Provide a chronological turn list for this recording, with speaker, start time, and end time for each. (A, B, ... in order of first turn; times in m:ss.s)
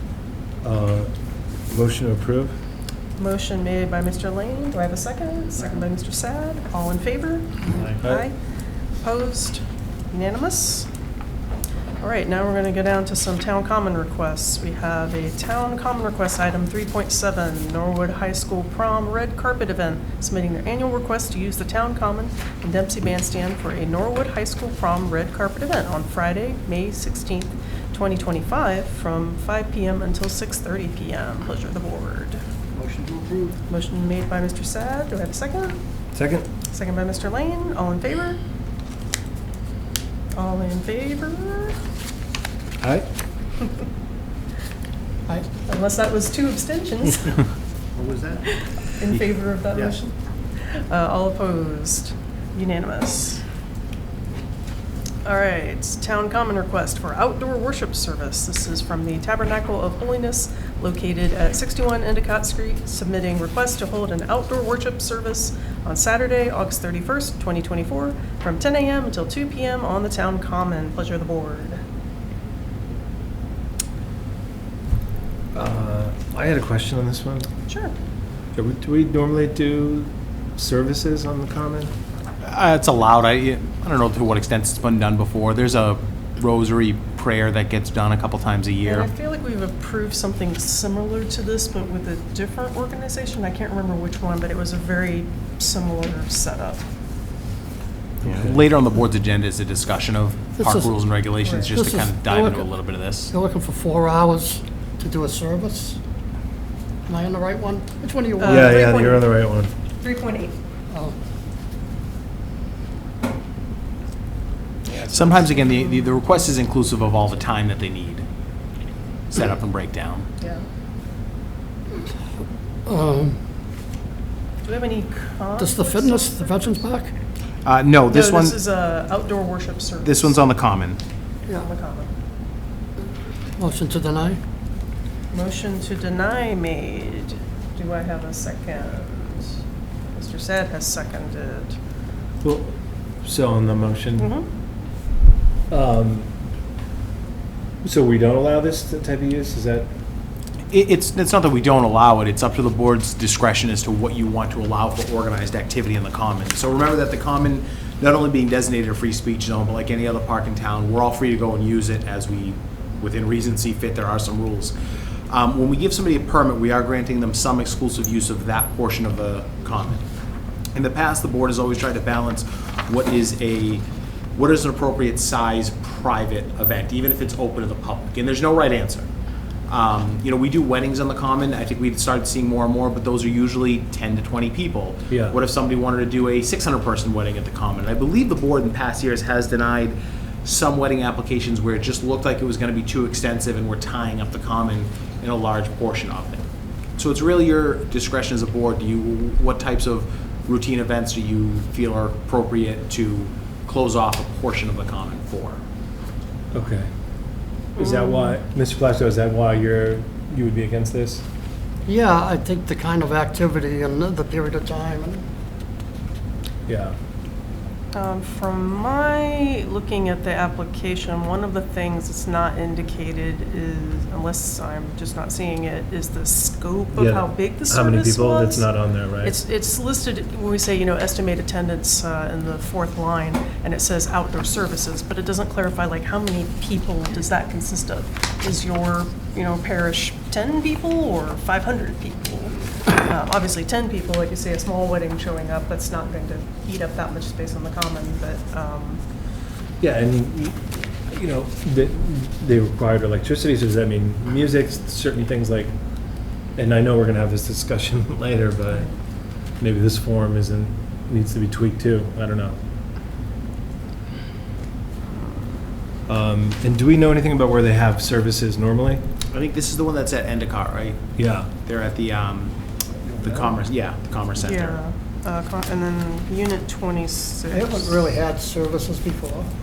0:00.6-0:01.1 A
0:01.7-0:02.5 A
0:03.2-0:08.3 B
0:07.7-0:08.2 A
0:09.0-0:10.9 B
0:12.0-0:32.4 B
0:33.7-0:35.8 B
0:36.1-0:36.4 A
0:36.7-0:38.4 B
0:40.3-0:41.8 B
0:45.5-0:47.4 B
0:48.0-0:48.2 C
0:48.4-0:53.4 B
0:55.2-1:11.8 B
1:15.5-1:17.5 A
1:17.7-1:17.9 B
1:18.6-1:21.9 A
1:22.4-1:29.1 C
1:28.8-1:36.8 B
1:38.2-1:38.5 A
1:38.2-1:43.3 C
1:40.6-1:40.9 D
1:41.4-1:41.7 B
1:41.7-1:42.7 D
1:43.3-1:46.0 D
1:47.1-1:48.9 D
1:48.4-1:49.4 B
1:48.4-1:49.7 A
1:50.0-1:50.5 B
1:50.9-1:51.1 D
1:55.0-1:58.2 C
1:59.3-2:00.3 C
2:02.8-2:03.4 D
2:04.6-2:06.9 B
2:05.6-2:07.1 D
2:07.6-2:08.6 C
2:08.1-2:10.4 B
2:10.0-2:11.0 C
2:11.5-2:12.1 B
2:13.6-2:14.4 D
2:15.3-2:19.6 B
2:20.1-2:21.8 B
2:22.4-2:24.3 A
2:24.2-2:24.5 B
2:25.7-2:26.3 A
2:27.8-2:29.9 A
2:30.7-2:44.7 C
2:45.3-2:50.0 C
2:50.7-2:53.8 C
2:54.3-2:59.1 C
2:59.7-3:16.4 C
3:05.1-3:05.4 A
3:17.0-3:25.6 C
3:26.5-3:26.9 A
3:27.7-3:31.2 A
3:27.8-3:28.3 B
3:31.8-3:35.2 D
3:36.7-3:36.9 A
3:37.9-3:48.7 B
3:47.0-3:49.4 A
3:49.2-4:09.0 B
4:09.8-4:15.7 A
4:16.6-4:18.9 A
4:19.6-4:22.6 A
4:26.1-4:29.0 A
4:29.3-4:32.6 C
4:31.2-4:31.5 A
4:33.1-4:33.5 A
4:33.2-4:34.8 C
4:34.4-4:38.0 B
4:37.5-4:39.5 D